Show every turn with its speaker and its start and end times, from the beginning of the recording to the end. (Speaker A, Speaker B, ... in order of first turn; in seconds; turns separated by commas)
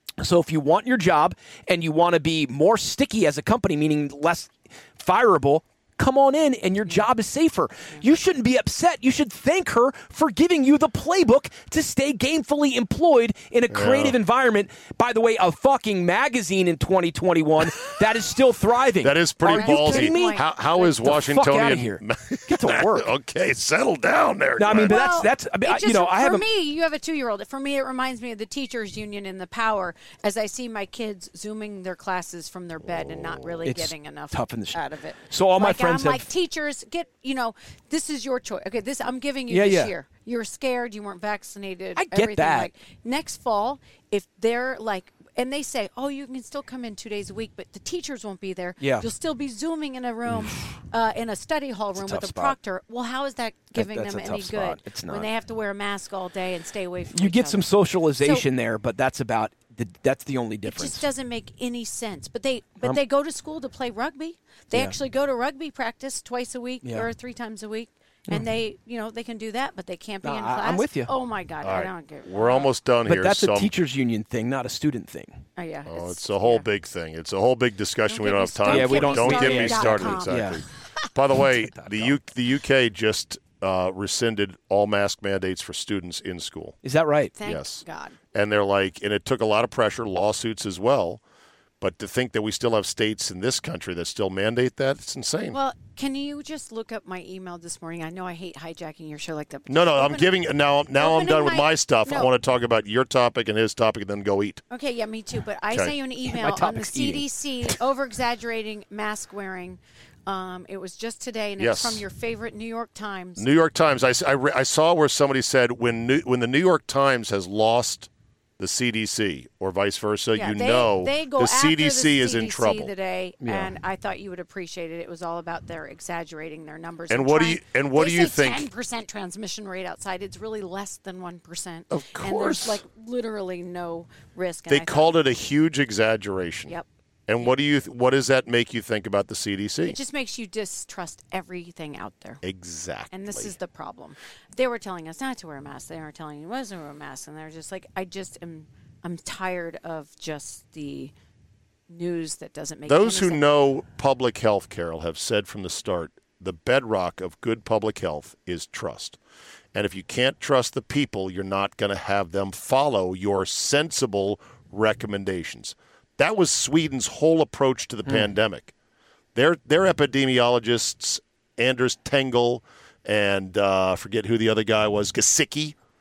Speaker A: 0.2-23.1, Speaker B: 13.7-14.2, Speaker B: 19.0-25.0, Speaker C: 19.4-20.5, Speaker A: 24.6-26.4, Speaker C: 24.9-57.7, Speaker B: 33.0-33.5, Speaker A: 33.6-36.2, Speaker A: 39.5-39.9, Speaker A: 42.0-42.7, Speaker A: 48.8-49.1, Speaker A: 51.9-52.5, Speaker A: 53.7-55.3, Speaker A: 57.1-61.0, Speaker C: 60.6-72.7, Speaker A: 66.8-67.1, Speaker A: 70.2-71.1, Speaker B: 71.6-73.7, Speaker A: 73.0-75.4, Speaker C: 75.6-76.7, Speaker B: 75.9-86.8, Speaker C: 78.1-80.5, Speaker A: 78.6-80.6, Speaker A: 81.3-82.2, Speaker A: 86.8-87.3, Speaker C: 87.4-88.2, Speaker B: 87.4-91.2, Speaker B: 91.8-95.6, Speaker C: 95.5-100.3, Speaker B: 99.7-104.6, Speaker C: 100.9-102.3, Speaker C: 104.7-113.5, Speaker A: 106.2-107.2, Speaker B: 111.6-112.0, Speaker B: 113.4-122.9, Speaker C: 120.3-135.2, Speaker A: 123.4-123.7, Speaker B: 127.1-128.7, Speaker B: 131.9-132.8, Speaker B: 134.7-136.7, Speaker B: 137.3-140.0, Speaker C: 139.8-142.4, Speaker B: 142.4-143.5, Speaker C: 143.1-151.1, Speaker C: 151.9-153.5, Speaker B: 152.9-159.2, Speaker B: 159.7-168.7, Speaker B: 169.3-175.8